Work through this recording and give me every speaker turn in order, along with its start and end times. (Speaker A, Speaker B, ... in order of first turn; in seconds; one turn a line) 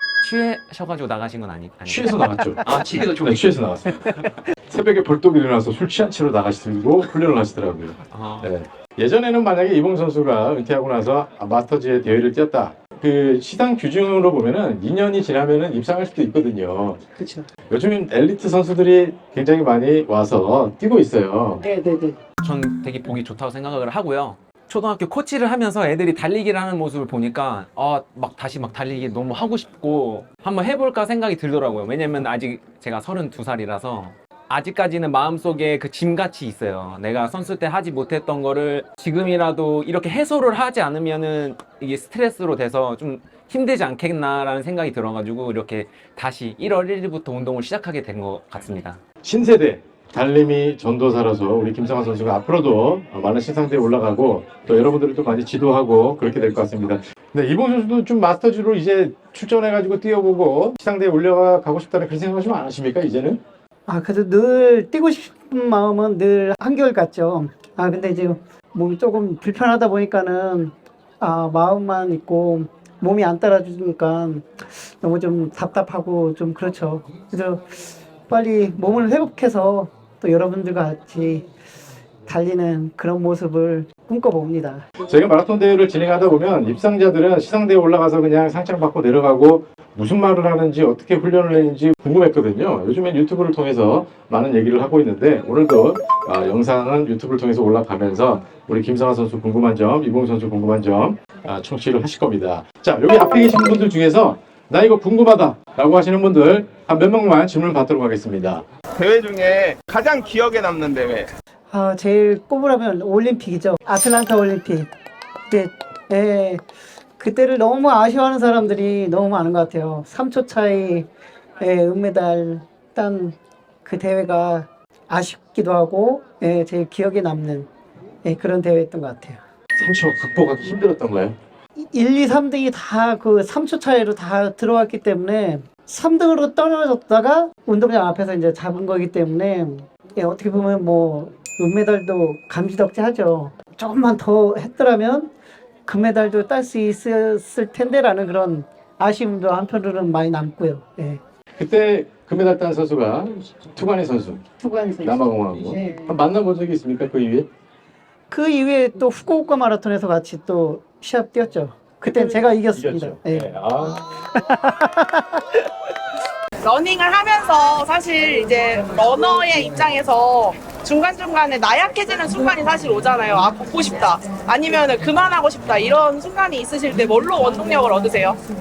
Speaker A: 0.2-3.8
Speaker B: 1.9-17.0
Speaker A: 8.1-8.5
Speaker C: 17.2-17.5
Speaker B: 17.7-21.6
Speaker C: 21.6-22.2
Speaker A: 22.4-49.0
Speaker B: 49.2-63.4
Speaker C: 63.9-81.5
Speaker C: 82.3-84.9
Speaker B: 85.0-108.6
Speaker D: 109.0-111.3
Speaker C: 111.7-114.9
Speaker C: 115.5-116.6
Speaker C: 117.2-121.1
Speaker C: 121.6-127.7
Speaker C: 128.2-129.4
Speaker B: 129.8-131.3
Speaker C: 131.8-145.3
Speaker C: 145.9-151.2
Speaker B: 151.6-154.4
Speaker C: 154.6-156.1
Speaker B: 155.0-157.5
Speaker C: 158.3-163.5
Speaker B: 162.1-164.0
Speaker C: 164.1-165.6
Speaker E: 166.6-178.4